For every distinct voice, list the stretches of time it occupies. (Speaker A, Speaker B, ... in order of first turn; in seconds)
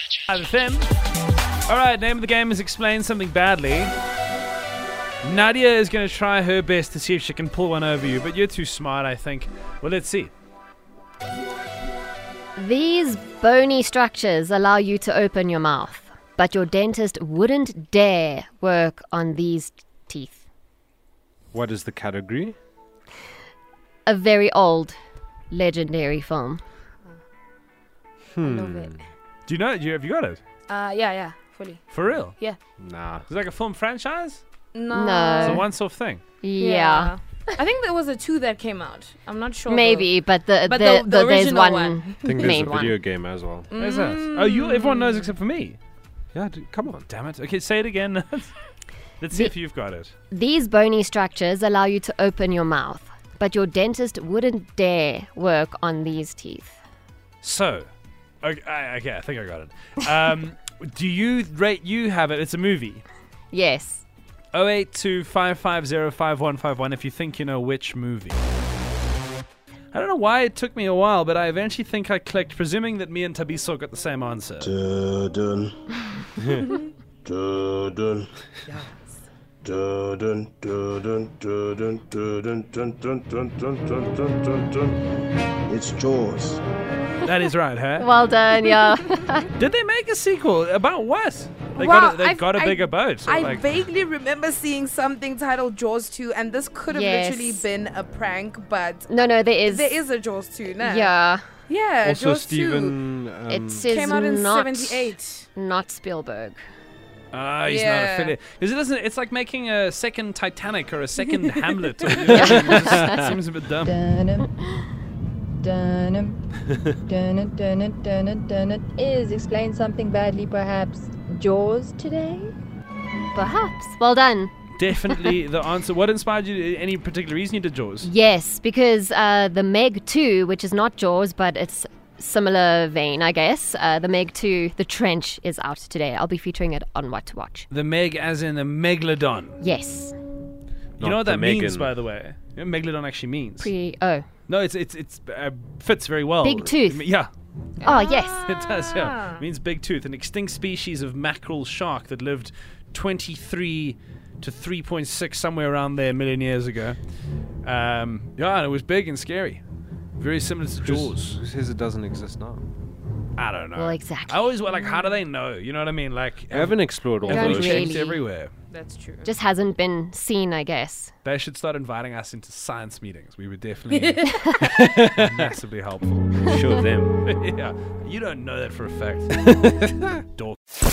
Speaker A: 0.3-0.9, 1.7-3.9, 5.2-10.3, 29.4-30.4, 31.9-32.3, 33.3-34.4, 35.4-36.2, 43.8-45.8, 47.1-48.5, 49.2-50.1, 57.4-57.9, 58.4-63.0, 64.5-68.4, 69.9-74.7, 87.2-88.1, 89.5-93.7, 107.3-113.9, 124.7-128.1, 137.7-139.6, 141.0-143.7, 144.5-147.3, 148.4-157.0, 157.6-159.6, 160.2-161.3, 163.3-168.5, 171.2-174.4, 175.2-176.6, 177.2-180.6
Speaker B: 12.6-20.4, 24.1-25.0, 25.5-26.6, 34.9-35.7, 36.4-37.5, 39.7-43.0, 50.3-56.8, 63.5-64.0, 88.0-89.5, 96.9-97.7, 99.1-100.1, 100.7-101.5, 103.5-106.6, 112.3-113.1, 123.3-124.5, 128.0-137.7, 139.6-140.1, 143.6-144.3, 146.4-147.0, 147.8-148.5, 163.8-164.5, 167.2-168.2, 169.2-171.1
Speaker C: 21.5-22.6, 28.3-29.0, 32.8-33.3, 42.2-43.7, 46.3-47.1, 102.0-103.9, 112.4-113.0, 141.0-141.9, 160.8-162.6, 166.5-168.1, 174.6-175.5, 176.4-177.2, 179.5-180.1
Speaker D: 30.7-32.6, 34.7-35.6, 36.6-42.2, 43.7-45.1, 91.7-101.1, 101.7-102.9, 103.8-105.5, 107.6-108.3, 168.7-169.3
Speaker E: 74.6-75.8, 77.2-78.3, 79.6-85.0, 85.7-86.6
Speaker F: 113.8-114.5, 115.6-116.4, 117.1-122.5